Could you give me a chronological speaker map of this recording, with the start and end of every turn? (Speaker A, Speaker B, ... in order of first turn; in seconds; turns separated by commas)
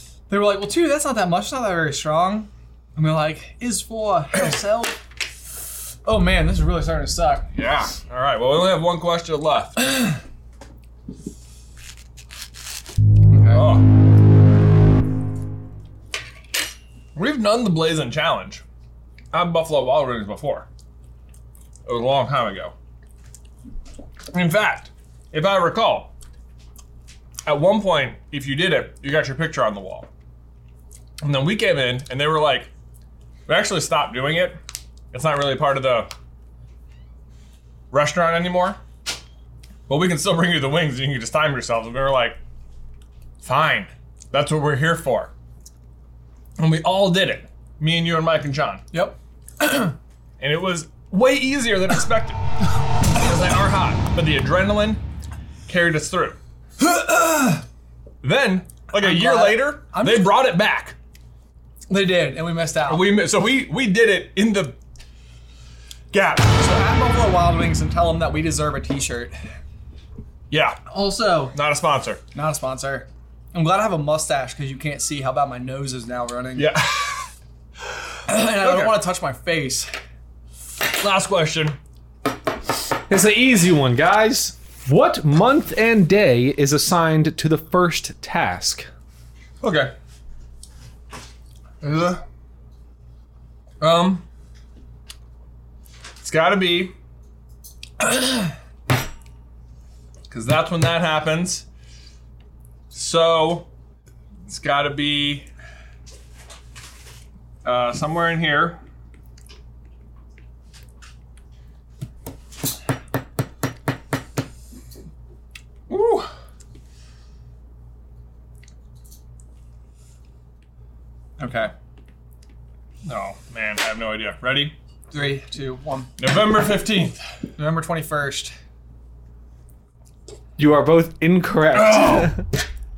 Speaker A: 0.3-5.0, Speaker A: 6.0-7.5, Speaker B: 7.5-10.0, Speaker A: 13.3-13.7, Speaker B: 13.5-13.9, Speaker B: 17.1-18.6, Speaker B: 19.3-20.7, Speaker B: 21.9-22.7, Speaker B: 24.3-26.1, Speaker B: 27.4-30.1, Speaker B: 31.2-32.7, Speaker B: 33.5-34.6, Speaker B: 35.1-36.1, Speaker B: 37.9-38.8, Speaker B: 39.9-42.4, Speaker B: 43.4-45.3, Speaker B: 46.6-48.9, Speaker B: 50.4-52.4, Speaker B: 53.1-55.0, Speaker B: 55.7-56.4, Speaker A: 56.8-57.6, Speaker B: 58.2-61.0, Speaker A: 59.0-60.4, Speaker A: 61.9-63.1, Speaker B: 62.9-64.8, Speaker B: 66.1-66.5, Speaker A: 66.5-69.4, Speaker B: 70.5-72.2, Speaker A: 70.9-71.5, Speaker A: 72.3-76.7, Speaker B: 76.6-77.3, Speaker A: 78.3-79.9, Speaker B: 78.4-79.0, Speaker B: 80.9-81.8, Speaker C: 83.1-88.9, Speaker B: 89.6-89.9, Speaker B: 91.8-92.2, Speaker B: 93.8-94.2, Speaker B: 96.2-96.9, Speaker B: 98.0-98.5, Speaker B: 100.3-101.7, Speaker B: 102.9-103.7, Speaker B: 104.5-105.5, Speaker B: 107.6-108.8, Speaker B: 115.9-116.3, Speaker A: 121.4-121.7, Speaker B: 123.0-124.8, Speaker A: 125.1-126.1, Speaker B: 126.2-127.2, Speaker A: 127.6-128.5, Speaker C: 130.6-132.5, Speaker B: 131.8-132.3